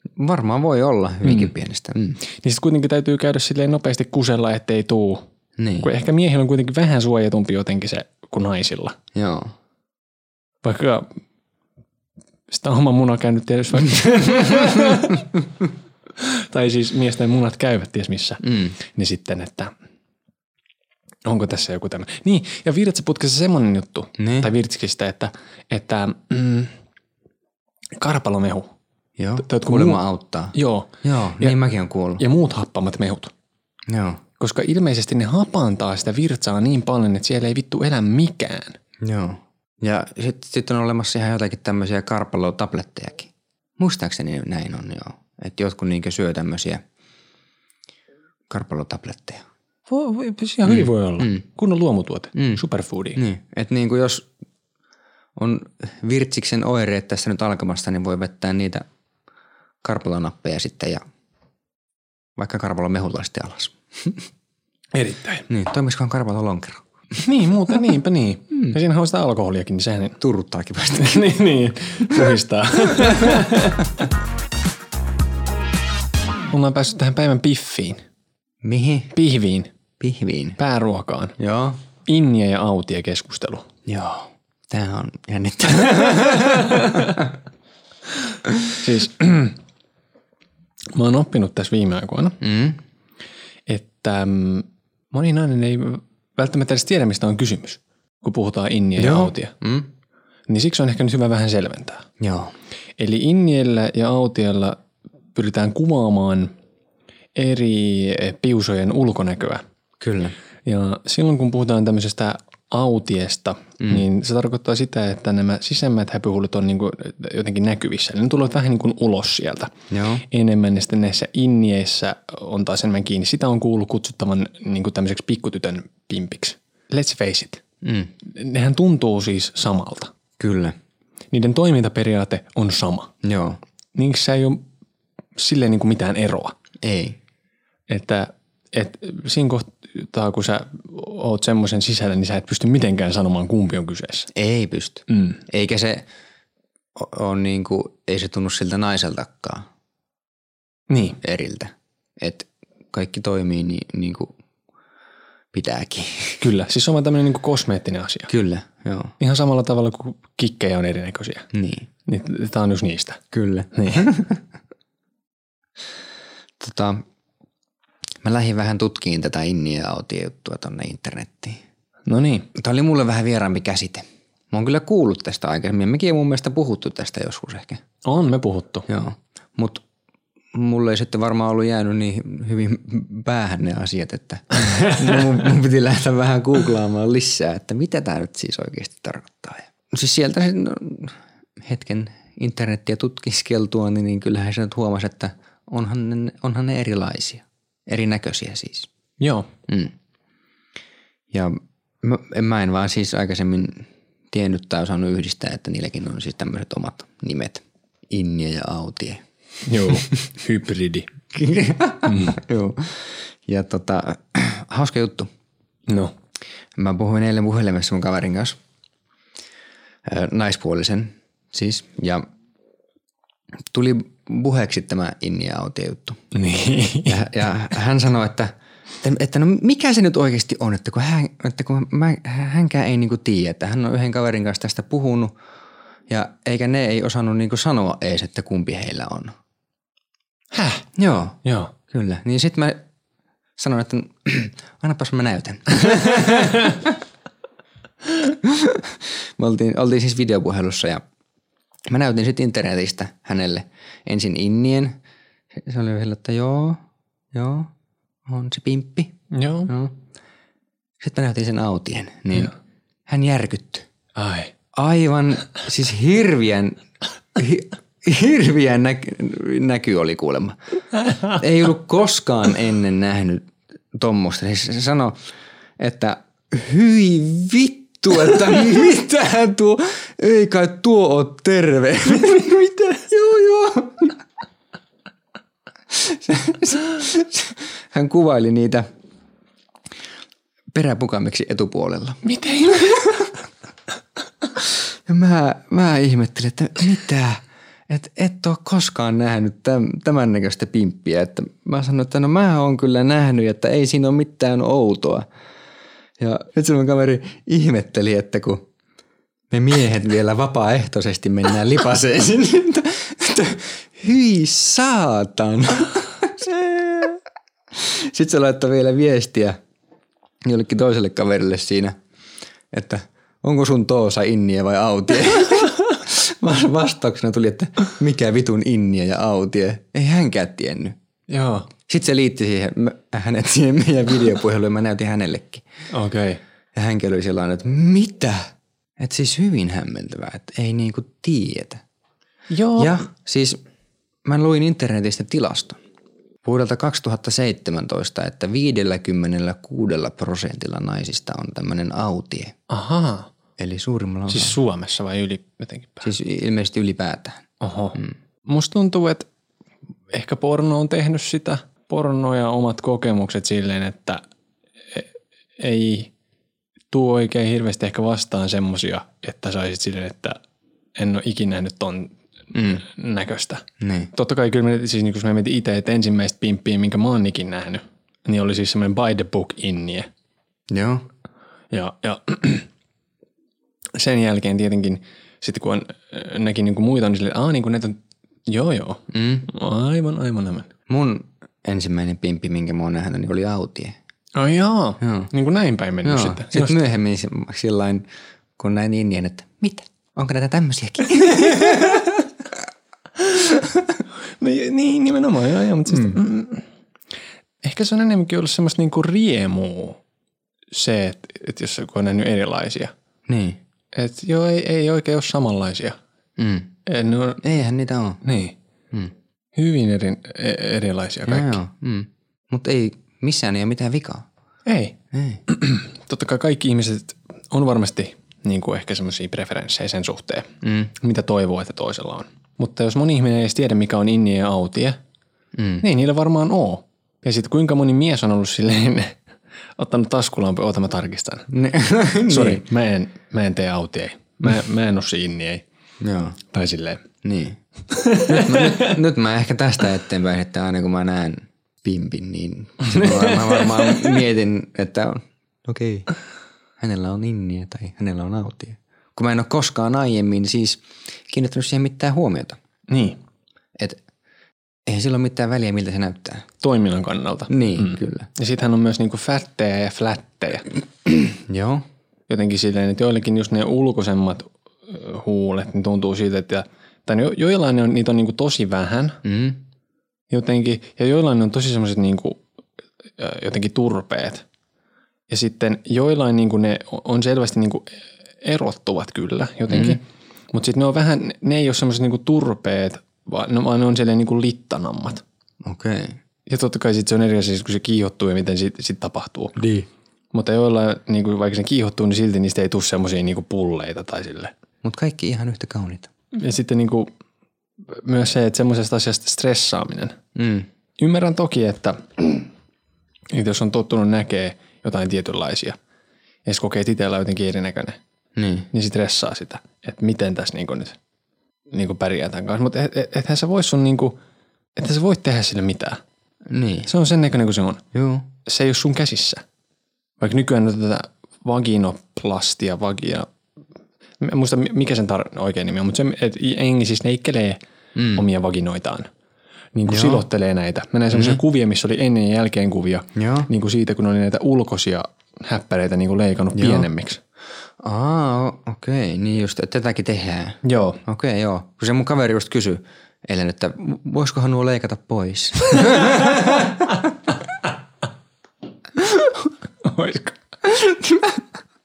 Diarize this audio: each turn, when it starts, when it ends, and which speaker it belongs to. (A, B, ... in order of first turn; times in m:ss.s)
0:00.2-0:02.2 A
0:01.2-0:01.5 B
0:02.4-0:05.2 B
0:05.6-0:05.9 A
0:05.8-0:09.0 B
0:09.1-0:09.5 A
0:10.6-0:11.2 B
0:12.5-0:15.2 B
0:16.2-0:19.7 B
0:18.4-0:18.8 A
0:21.2-0:26.7 B
0:24.2-0:24.5 A
0:28.0-0:28.7 B
0:29.2-0:32.2 A
0:29.4-0:30.0 B
0:30.5-0:31.6 B
0:32.2-0:33.3 B
0:33.9-0:34.2 A
0:34.4-0:38.8 B
0:39.0-0:46.8 A
0:48.5-0:49.4 A
0:49.9-0:53.2 B
0:50.6-0:51.4 A
0:52.4-0:52.6 A
0:53.2-0:54.3 A
0:55.4-0:58.9 A
0:59.8-1:01.0 A
1:02.4-1:04.2 A
1:04.9-1:05.5 B
1:05.5-1:06.8 A
1:07.2-1:10.2 B
1:10.2-1:11.4 A
1:11.0-1:13.9 B
1:13.0-1:13.5 A
1:16.5-1:18.0 B
1:18.6-1:19.1 A
1:19.1-1:19.7 B
1:20.0-1:20.6 A
1:20.6-1:21.4 B
1:21.4-1:21.8 A
1:22.1-1:23.7 B
1:23.9-1:27.3 A
1:28.8-1:29.6 B
1:31.0-1:32.4 B
1:32.4-1:32.8 A
1:33.7-1:39.5 B
1:39.0-1:39.9 A
1:40.5-1:42.1 B
1:42.2-1:42.5 A
1:43.0-1:44.8 B
1:45.4-1:46.5 B
1:47.4-1:49.6 B
1:50.0-1:50.4 A
1:50.6-1:59.7 B
1:59.9-2:00.2 A
2:00.2-2:07.6 B
2:07.8-2:08.1 A
2:08.2-2:10.1 B
2:10.4-2:10.8 A
2:11.3-2:13.1 B
2:13.2-2:13.6 A
2:14.0-2:14.6 B
2:15.4-2:16.6 B
2:16.8-2:17.2 A
2:17.9-2:24.3 B
2:24.3-2:26.1 A
2:25.1-2:25.4 B
2:27.0-2:29.7 A
2:30.9-2:31.2 B
2:31.2-2:34.3 A
2:35.5-2:36.4 A
2:36.4-2:38.3 B
2:38.3-2:39.1 A
2:39.2-2:41.5 B
2:41.5-2:41.9 A
2:42.1-2:43.2 B
2:43.3-2:44.4 A
2:43.7-2:44.1 B
2:46.6-2:47.0 A
2:48.2-2:51.6 A
2:52.1-2:52.5 B
2:52.6-2:57.8 A
2:58.0-2:58.9 B
2:58.9-2:59.8 A
3:00.5-3:18.9 A
3:19.2-3:19.5 B
3:19.7-3:19.9 A
3:21.3-3:29.2 A
3:29.7-3:31.1 B
3:31.3-3:35.3 A
3:32.1-3:32.4 B
3:35.9-3:36.1 B
3:36.8-3:38.6 A
3:40.0-3:42.3 A
3:43.7-3:46.2 A
3:46.3-3:47.2 B
3:47.1-3:55.4 A
3:56.1-3:59.3 A
4:00.5-4:00.9 B
4:01.0-4:02.8 A
4:01.4-4:01.7 B
4:03.6-4:07.0 A
4:08.2-4:11.0 A
4:11.9-4:15.0 A
4:15.5-4:17.7 A
4:18.3-4:19.1 A
4:19.3-4:19.7 B
4:19.7-4:20.0 A
4:21.0-4:22.5 A
4:23.1-4:23.9 A
4:24.2-4:24.5 B
4:24.7-4:26.8 A
4:27.4-4:30.6 A
4:31.3-4:35.2 A
4:35.8-4:44.2 A
4:45.9-4:48.9 A
4:50.7-4:53.2 A
4:52.2-4:53.1 B
4:54.6-5:05.3 A
5:06.2-5:08.7 A
5:09.5-5:17.2 A
5:17.7-5:19.6 A
5:20.4-5:22.0 A
5:22.7-5:31.0 A
5:31.3-5:31.7 B
5:31.8-5:35.6 A
5:35.9-5:36.4 B
5:36.7-5:41.8 A
5:42.5-5:43.0 B
5:42.8-5:43.6 A
5:44.3-5:45.8 A
5:46.4-5:52.6 A
5:52.7-5:53.3 B
5:53.6-5:54.6 A
5:54.3-5:56.1 B
5:56.0-5:57.4 A
5:57.6-5:59.3 B
6:00.1-6:04.2 B
6:04.9-6:06.1 B
6:06.9-6:10.4 B
6:11.0-6:20.1 B
6:12.5-6:12.8 A
6:13.8-6:14.1 A
6:20.7-6:21.1 A
6:21.7-6:22.7 B
6:24.0-6:30.7 B
6:29.1-6:29.5 A
6:30.9-6:34.0 A
6:34.4-6:36.8 B
6:35.0-6:35.3 A
6:36.0-6:42.1 A
6:44.4-6:46.6 B
6:45.9-6:46.2 A
6:47.6-6:50.0 B
6:50.7-6:52.9 B
6:53.3-6:53.6 A
6:53.9-6:56.0 B
6:56.4-6:56.7 A
6:56.9-6:57.4 B
6:57.4-6:58.2 A
6:58.2-6:58.6 B
6:59.6-7:01.6 B
7:01.3-7:04.3 A
7:04.7-7:05.0 B
7:05.1-7:05.4 A
7:05.5-7:15.0 B
7:10.6-7:10.9 A
7:15.6-7:15.8 A
7:15.8-7:19.2 B
7:19.8-7:21.5 B
7:21.5-7:22.6 A
7:22.3-7:25.6 B
7:26.0-7:26.4 A
7:26.5-7:27.0 B
7:27.2-7:27.6 A
7:27.9-7:29.0 B
7:28.2-7:36.1 A
7:32.9-7:34.2 B
7:36.8-7:42.6 A
7:42.9-7:43.2 B
7:44.9-7:46.5 A
7:46.6-7:50.7 B
7:47.5-7:48.3 A
7:51.1-7:51.9 A
7:52.3-7:59.2 B
7:59.2-7:59.6 A
8:00.3-8:02.4 B
8:03.2-8:04.4 B
8:05.3-8:15.2 B
8:09.7-8:10.0 A
8:15.6-8:16.2 A
8:16.5-8:19.6 B
8:19.6-8:19.9 A
8:20.3-8:24.5 B
8:24.8-8:26.1 A
8:26.4-8:27.1 B
8:27.9-8:30.2 B
8:30.4-8:30.7 A
8:31.0-8:32.5 B
8:33.3-8:35.8 B
8:36.4-8:38.0 B
8:38.4-8:38.7 A
8:38.7-8:41.0 B
8:41.7-8:44.2 B
8:44.8-8:46.0 B
8:46.5-8:46.9 A
8:46.9-8:47.8 B
8:47.9-8:48.3 A
8:48.4-8:49.4 B
8:50.2-8:53.3 B
8:54.2-8:57.6 B
8:58.0-8:58.2 A
8:58.1-8:59.1 B
8:59.8-9:07.2 B
8:59.9-9:00.2 A
9:01.1-9:01.4 A
9:03.2-9:03.5 A
9:06.6-9:06.9 A
9:07.8-9:17.1 A
9:10.6-9:11.0 B
9:19.8-9:20.4 B
9:20.6-9:21.4 A